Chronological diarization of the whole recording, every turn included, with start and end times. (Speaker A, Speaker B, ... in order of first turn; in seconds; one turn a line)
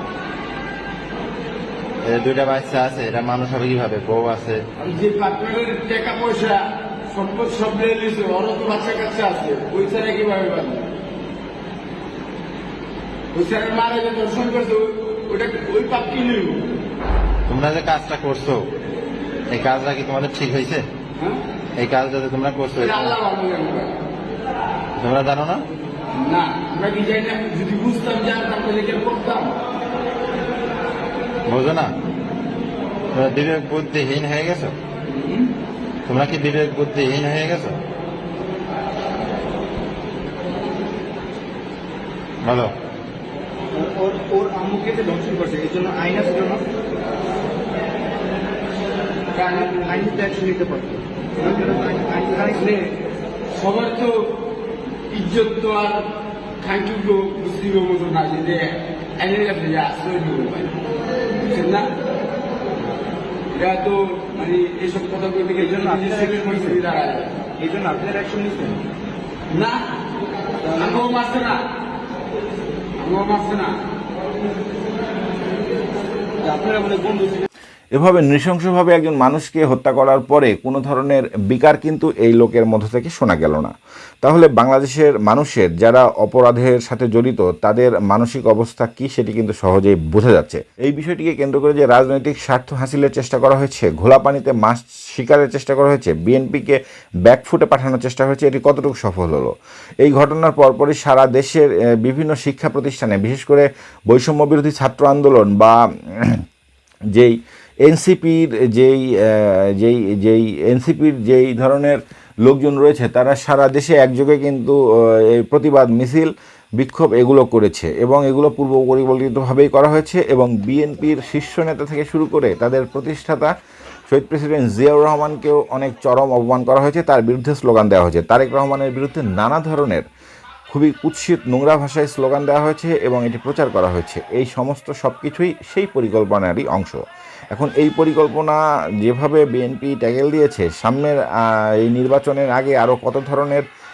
Speaker A: 2.0-4.6
Speaker B: 4.8-10.9
Speaker B: 13.3-16.7
Speaker A: 17.5-18.6
Speaker A: 19.5-20.8
Speaker A: 21.8-23.1
Speaker B: 22.8-23.9
Speaker A: 25.0-25.6
Speaker B: 26.1-29.6
Speaker A: 31.5-31.9
Speaker A: 33.1-34.7
Speaker B: 35.1-35.5
Speaker A: 36.0-37.8
Speaker A: 42.4-42.7
Speaker C: 43.7-46.6
Speaker B: 49.3-50.3
Speaker C: 49.9-52.7
Speaker B: 52.5-52.9
Speaker B: 53.5-54.4
Speaker B: 55.1-56.1
Speaker B: 56.6-60.7
Speaker B: 61.4-61.9
Speaker B: 63.5-67.4
Speaker C: 65.6-66.8
Speaker C: 67.6-68.8
Speaker B: 69.5-69.8
Speaker C: 70.6-71.0
Speaker B: 70.7-71.6
Speaker B: 73.0-73.7
Speaker C: 76.4-77.4
Speaker D: 77.9-106.4
Speaker D: 107.1-123.5
Speaker D: 124.1-130.0
Speaker D: 130.7-137.0
Speaker D: 137.5-143.6